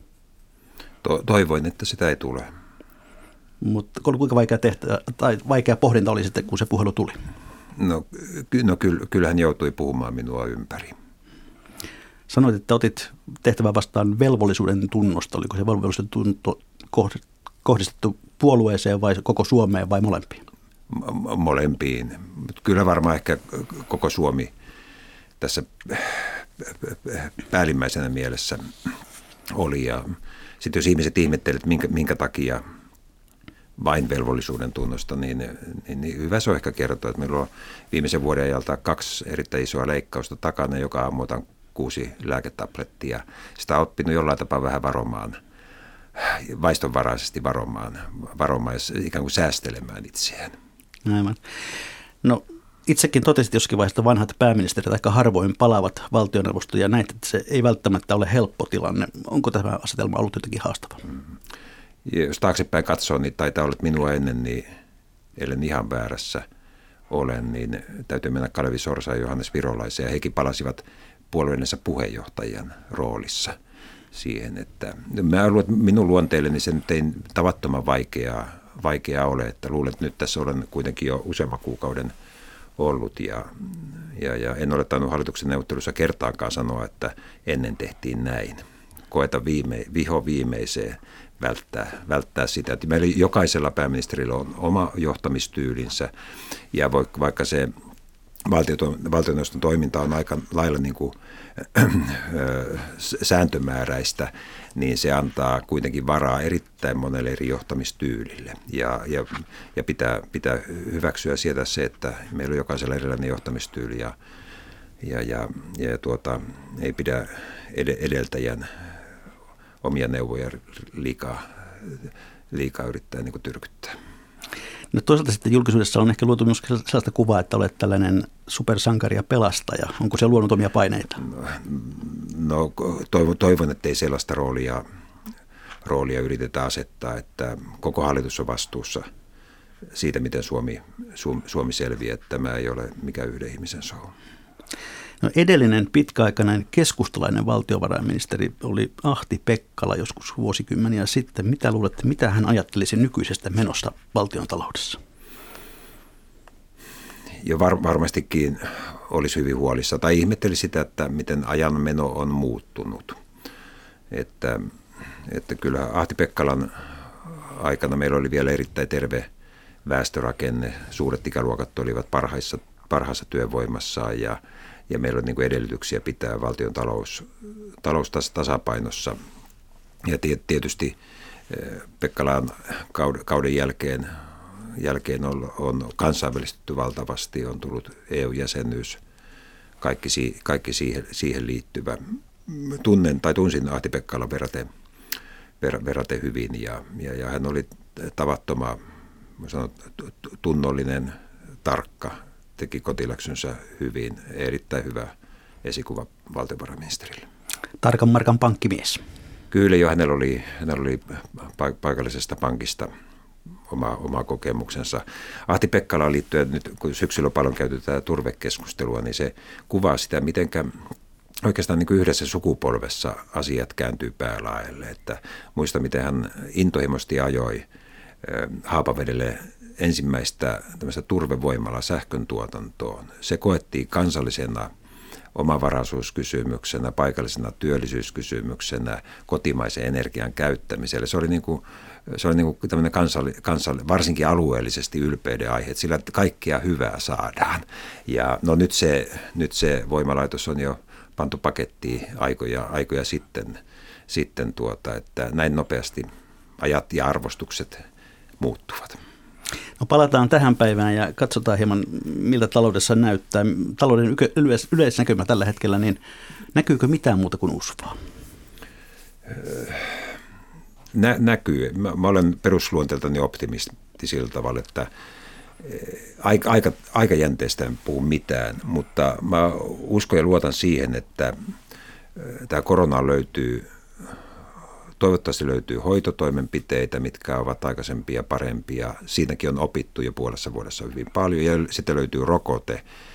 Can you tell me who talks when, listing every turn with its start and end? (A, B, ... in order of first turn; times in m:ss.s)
0:01.0-0:02.5 A
0:03.6-0:07.2 B
0:07.8-0:10.9 A
0:12.3-0:20.4 B
0:20.9-0:24.5 A
0:25.4-0:28.9 A
0:29.5-0:32.6 A
0:33.8-0:45.4 A
0:46.1-0:50.5 A
0:51.0-0:51.4 B
0:52.2-1:01.0 B
1:02.0-1:04.6 A
1:05.4-1:06.4 A
1:07.1-1:13.5 A
1:14.1-1:22.1 A
1:22.8-1:36.1 A
1:36.7-1:37.7 A
1:38.4-1:54.1 A
1:55.0-1:58.9 A
1:59.8-2:04.0 A
2:04.9-2:11.2 B
2:11.2-2:14.8 A
2:15.8-2:19.0 A
2:19.9-2:24.1 A
2:25.2-2:35.0 B
2:37.4-2:43.2 A
2:44.1-2:44.7 A
2:45.2-2:49.3 A
2:49.8-2:59.2 A
3:00.0-3:01.0 A
3:01.5-3:09.0 A
3:09.8-3:14.7 A
3:15.6-3:18.8 A
3:19.4-3:21.1 A
3:21.6-3:25.1 A
3:25.6-3:27.3 A
3:27.8-3:29.0 B
3:29.5-3:32.9 A
3:33.7-3:40.7 A
3:41.4-3:47.6 A
3:48.2-3:54.7 A
3:55.3-4:13.6 A
4:14.1-4:16.1 A
4:16.6-4:17.8 A
4:18.4-4:19.0 A
4:19.8-4:26.0 B
4:26.5-4:28.0 B
4:29.3-4:30.0 A
4:30.9-4:34.9 A
4:35.6-4:41.3 A
4:42.2-4:44.2 A
4:45.0-4:52.8 A